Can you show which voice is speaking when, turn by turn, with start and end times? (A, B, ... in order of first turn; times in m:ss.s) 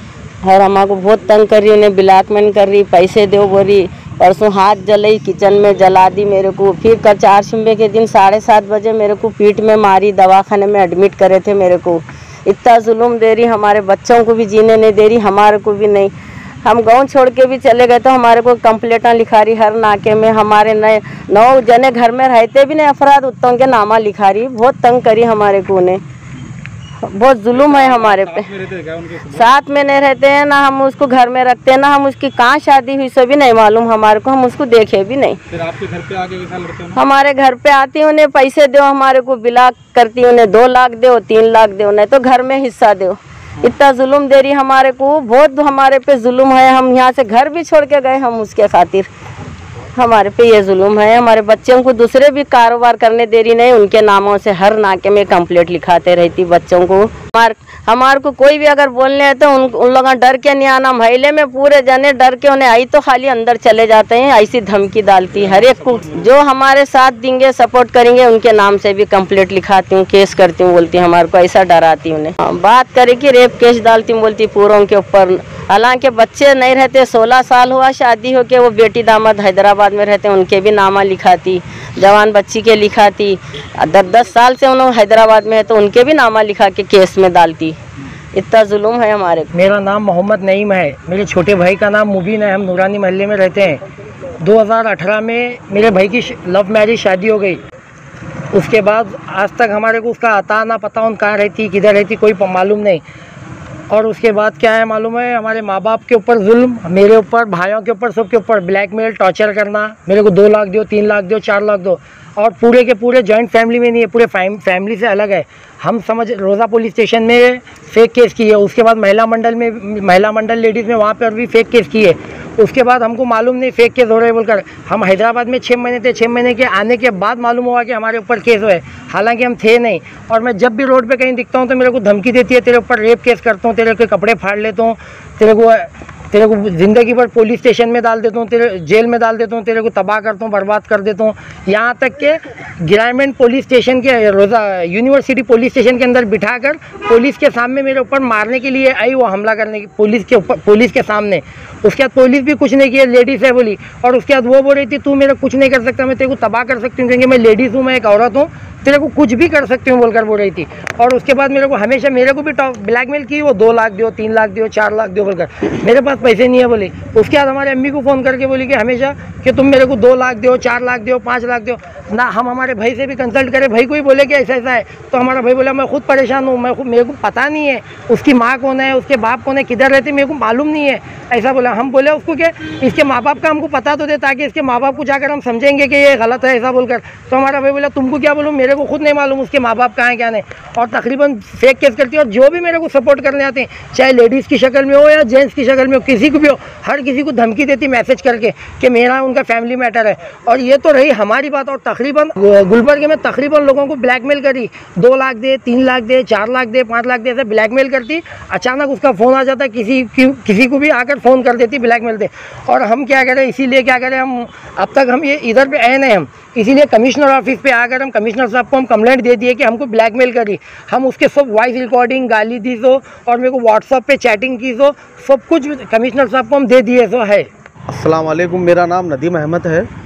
0:00.4-0:16.1 A
0:16.6-0:26.0 A
0:27.0-0:28.6 A
0:27.7-0:29.4 B
0:29.2-0:35.4 A
0:35.5-0:37.0 B
0:36.8-0:49.1 A
0:49.9-1:27.8 A
1:05.4-1:06.2 B
1:28.3-1:29.5 A
1:29.5-1:33.8 C
1:34.4-1:37.6 C
1:38.5-1:43.0 C
1:43.9-3:47.5 C
3:47.9-3:49.9 D